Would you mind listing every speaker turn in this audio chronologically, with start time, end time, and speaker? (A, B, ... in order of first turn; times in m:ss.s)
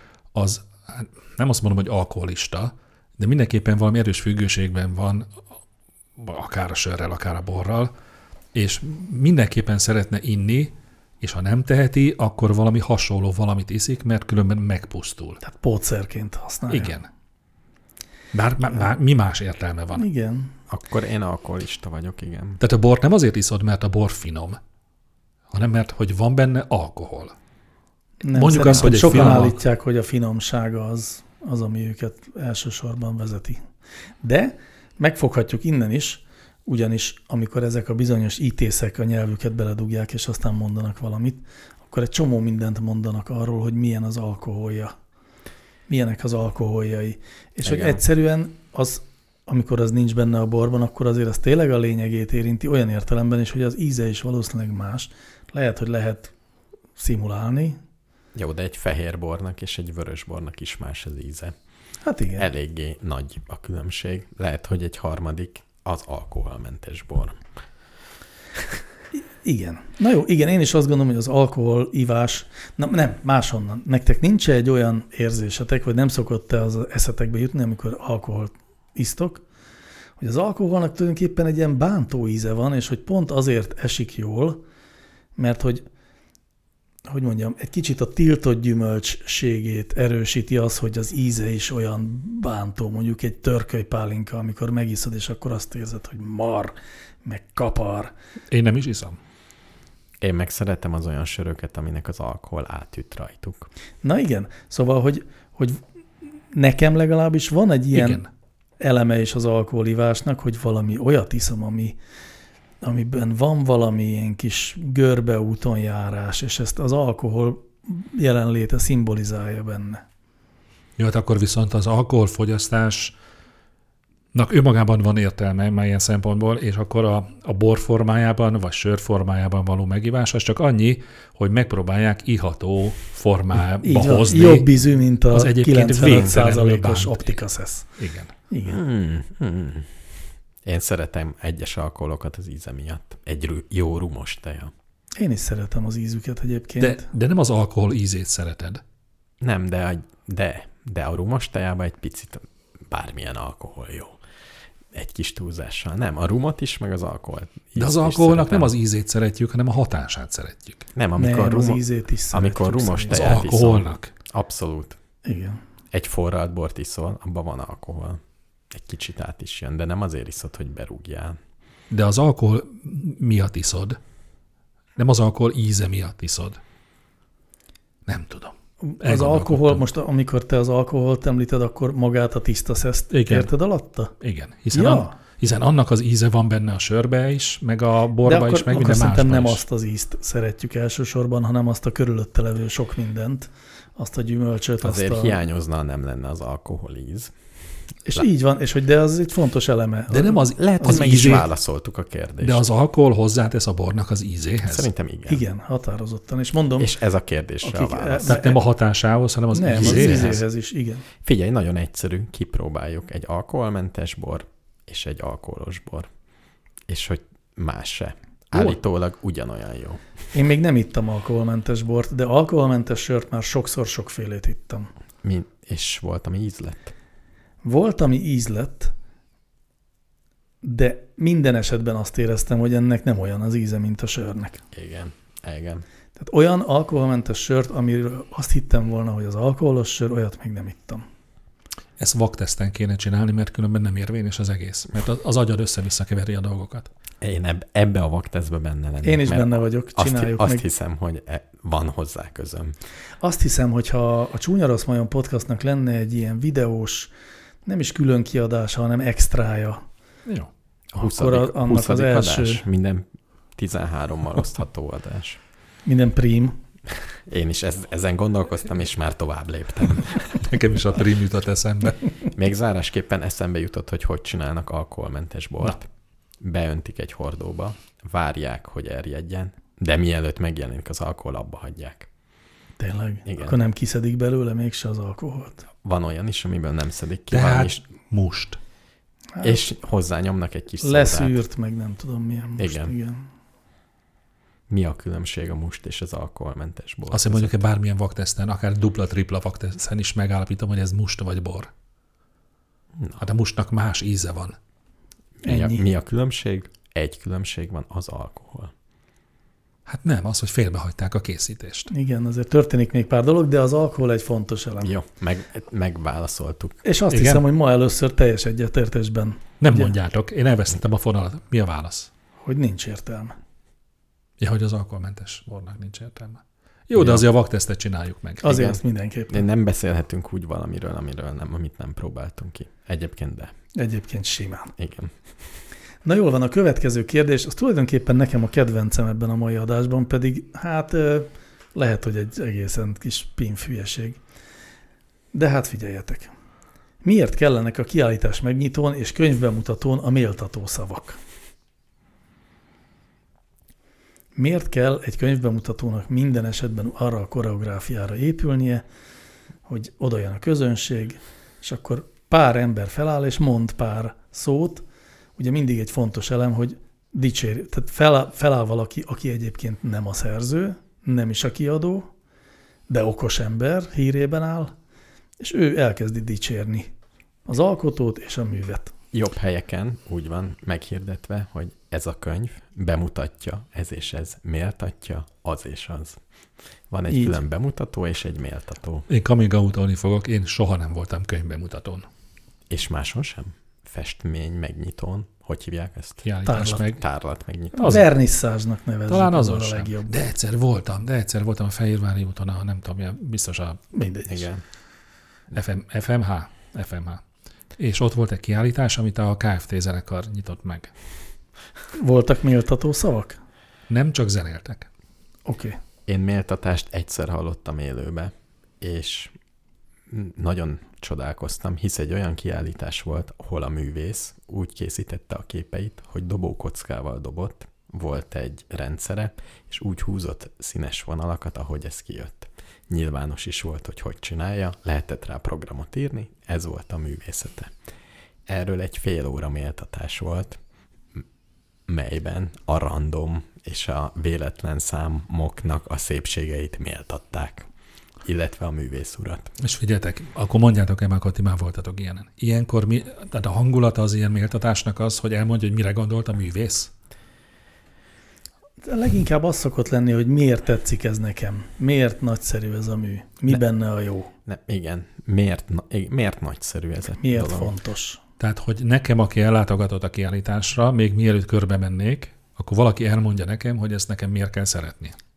0:00.3-0:05.3 A
0:06.2-0:07.9 A
0:08.5-0:15.4 A
0:15.4-0:16.9 B
0:16.7-0:17.1 A
0:18.3-0:20.1 A
0:20.0-0:20.5 B
0:20.7-0:22.6 C
0:22.6-0:24.6 A
0:25.5-0:27.3 A
0:28.2-0:33.6 B
0:28.3-0:29.6 A
0:28.9-0:29.3 C
0:34.2-0:44.9 B
0:45.9-0:56.3 B
0:47.6-0:48.0 C
0:57.0-0:57.8 B
0:58.3-1:01.5 C
1:02.0-1:02.4 B
1:02.4-1:07.4 C
1:09.1-1:19.4 B
1:20.2-1:24.6 B
1:25.4-1:25.8 B
1:27.1-1:38.1 B
1:38.5-1:39.2 A
1:40.2-1:43.7 C
1:44.0-1:45.8 B
1:46.5-1:48.2 B
1:47.9-1:48.2 A
1:48.8-1:52.0 B
1:52.8-2:00.0 B
2:01.0-2:03.1 A
2:04.3-2:14.7 A
2:13.8-2:17.9 B
2:15.3-2:17.4 A
2:18.0-2:18.3 A
2:18.5-2:18.8 B
2:18.6-2:20.0 C
2:20.6-2:24.7 C
2:25.2-2:27.1 B
2:26.8-2:28.8 A
2:29.4-2:34.2 C
2:34.9-2:38.7 C
2:37.8-2:40.8 A
2:40.9-2:45.0 C
2:41.2-2:43.4 B
2:43.1-2:44.1 A
2:45.2-2:45.6 B
2:45.9-2:51.4 C
2:51.9-2:54.0 A
2:55.0-2:56.6 A
2:58.0-2:59.8 A
2:58.8-3:04.1 B
3:03.1-3:03.5 A
3:04.2-3:09.6 A
3:04.7-3:05.1 B
3:08.2-3:15.4 B
3:14.8-3:17.4 C
3:18.0-3:21.4 B
3:20.1-3:21.5 A
3:20.6-3:22.6 C
3:22.4-3:24.9 A
3:24.6-3:25.4 C
3:25.3-3:26.9 B
3:26.8-3:28.4 C
3:27.6-3:28.6 B
3:28.3-3:30.4 A
3:29.5-3:31.0 B
3:29.8-3:30.4 C
3:31.2-3:36.1 C
3:36.9-3:40.0 C
3:40.3-3:44.9 B
3:45.2-3:46.9 C
3:47.6-3:48.9 B
3:50.6-3:54.6 B
3:54.7-3:55.8 C
3:56.2-4:01.0 B
4:02.0-4:06.9 A
4:07.2-4:12.8 C
4:09.0-4:10.6 B
4:13.2-4:17.1 B
4:17.6-4:19.8 B
4:21.0-4:22.6 B
4:21.0-4:25.4 C
4:25.8-4:26.6 B
4:27.3-4:30.4 C
4:30.4-4:32.1 A
4:32.3-4:35.8 C
4:36.4-4:42.1 C
4:42.8-4:45.6 B
4:43.2-4:43.5 C
4:45.8-4:47.8 C
4:47.3-4:48.6 A
4:49.3-4:49.6 B
4:49.4-4:51.4 C
4:50.8-4:53.3 B
4:52.6-4:52.9 C
4:54.7-4:57.6 C
4:57.1-5:01.7 A
5:02.9-5:03.2 C
5:03.2-5:04.6 A
5:05.4-5:08.7 C
5:05.4-5:05.8 B
5:09.8-5:11.9 A
5:11.9-5:14.9 B
5:14.8-5:16.8 C
5:16.8-5:19.9 B
5:17.1-5:17.4 A
5:19.6-5:22.1 A
5:22.4-5:23.4 B
5:24.4-5:28.6 A
5:26.9-5:27.3 C
5:28.4-5:29.4 B
5:28.4-5:33.5 C
5:33.8-5:34.7 B
5:34.8-5:35.2 C
5:36.0-5:44.2 B
5:45.3-5:46.3 B
5:47.0-5:51.2 B
5:54.4-5:58.8 B
5:59.7-6:04.8 B
6:05.4-6:12.1 B
6:12.9-6:14.7 B
6:15.4-6:16.9 B
6:17.5-6:18.9 B
6:19.1-6:26.2 C
6:26.9-6:29.1 C
6:27.1-6:27.4 B
6:29.1-6:32.0 A
6:32.7-6:36.2 C
6:36.2-6:37.0 A
6:36.4-6:36.8 B
6:37.0-6:38.0 C
6:37.7-6:40.1 B
6:37.8-6:38.0 A
6:39.1-6:43.8 A
6:43.9-6:44.4 B
6:44.3-6:44.6 C
6:45.5-6:47.2 A
6:47.8-6:50.9 A
6:52.0-6:53.4 B
6:53.9-6:54.9 A
6:55.4-6:55.8 B
6:56.1-6:59.3 C
7:00.1-7:17.8 C
7:18.5-7:20.6 C
7:21.9-7:27.7 C
7:28.2-7:29.5 C
7:29.6-7:36.9 A
7:38.8-7:44.3 B
7:44.4-7:47.7 C
7:47.2-7:48.2 B
7:48.4-7:55.2 A